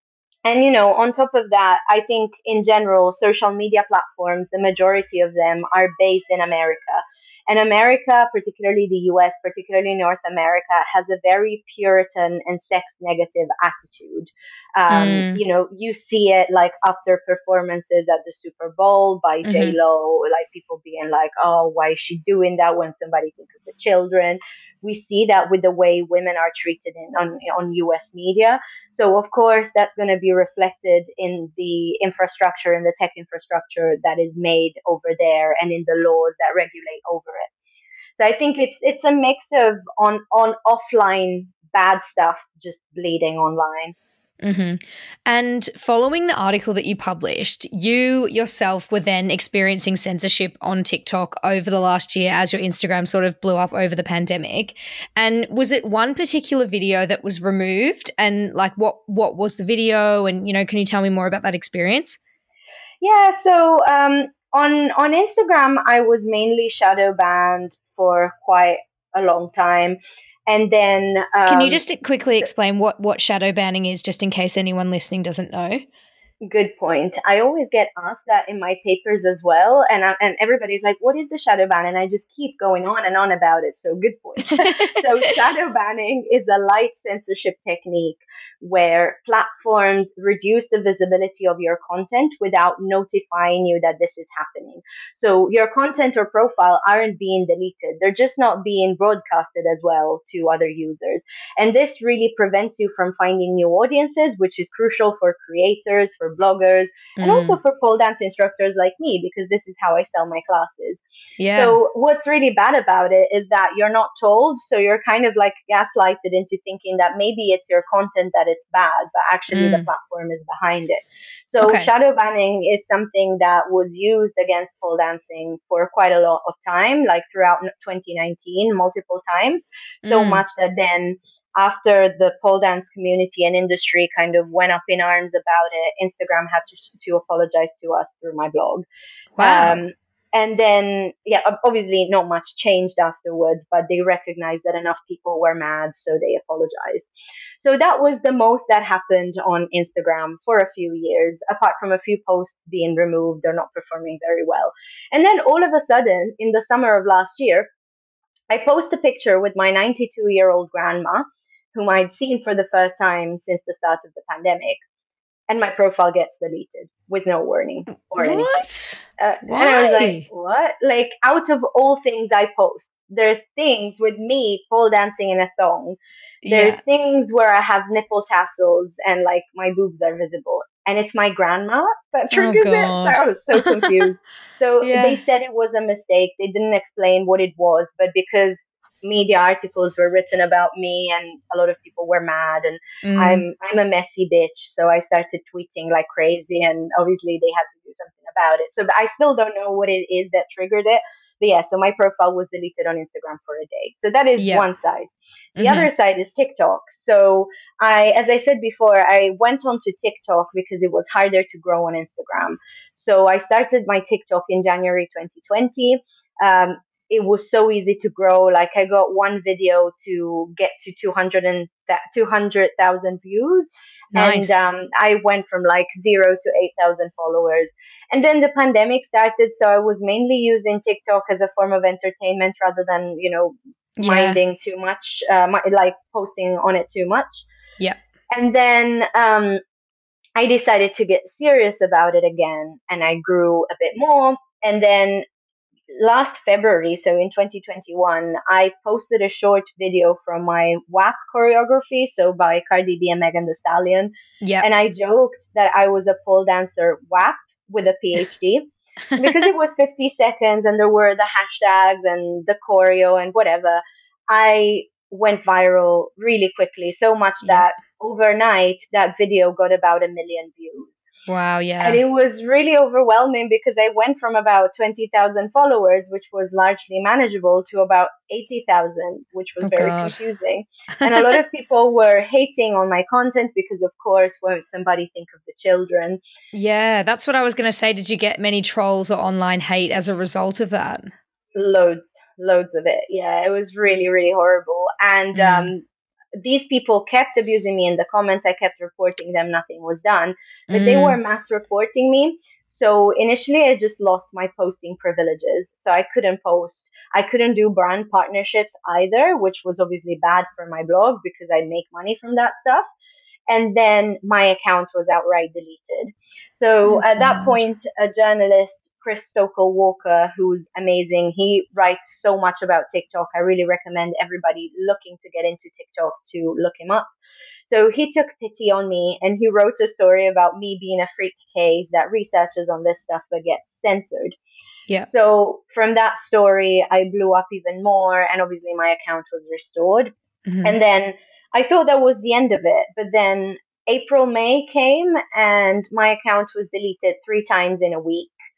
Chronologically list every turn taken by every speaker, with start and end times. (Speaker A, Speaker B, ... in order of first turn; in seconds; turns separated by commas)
Speaker A: 0.5-37.5, Speaker B: 14.9-15.4, Speaker B: 19.4-19.8, Speaker A: 38.2-44.0, Speaker B: 44.4-62.2, Speaker A: 63.0-70.0, Speaker A: 70.5-71.8, Speaker B: 71.5-75.8, Speaker A: 76.5-138.8, Speaker B: 84.5-85.0, Speaker B: 107.2-107.6, Speaker B: 111.4-111.8, Speaker B: 119.5-119.9, Speaker B: 121.6-121.9, Speaker B: 130.1-130.4, Speaker B: 139.4-139.8, Speaker A: 139.4-147.1, Speaker A: 147.6-157.7, Speaker A: 158.5-164.8, Speaker A: 165.5-168.5, Speaker B: 168.2-170.3, Speaker A: 169.2-176.0, Speaker B: 176.4-176.8, Speaker A: 176.5-237.5, Speaker B: 182.3-183.9, Speaker B: 184.8-185.2, Speaker B: 193.0-193.5, Speaker B: 204.4-204.7, Speaker B: 205.6-205.9, Speaker B: 224.1-224.6, Speaker B: 234.0-234.4, Speaker A: 238.3-239.6, Speaker A: 240.4-245.2, Speaker A: 246.0-271.0, Speaker B: 254.4-254.7, Speaker B: 271.3-272.0, Speaker A: 271.8-286.2, Speaker B: 279.6-280.2, Speaker B: 281.0-281.4, Speaker B: 286.5-291.1, Speaker A: 291.6-295.8, Speaker B: 295.4-295.7, Speaker A: 296.4-312.9, Speaker B: 300.7-301.2, Speaker A: 313.5-327.1, Speaker B: 316.9-317.6, Speaker A: 327.7-334.4, Speaker A: 335.0-340.1, Speaker B: 340.5-340.8, Speaker A: 340.6-348.4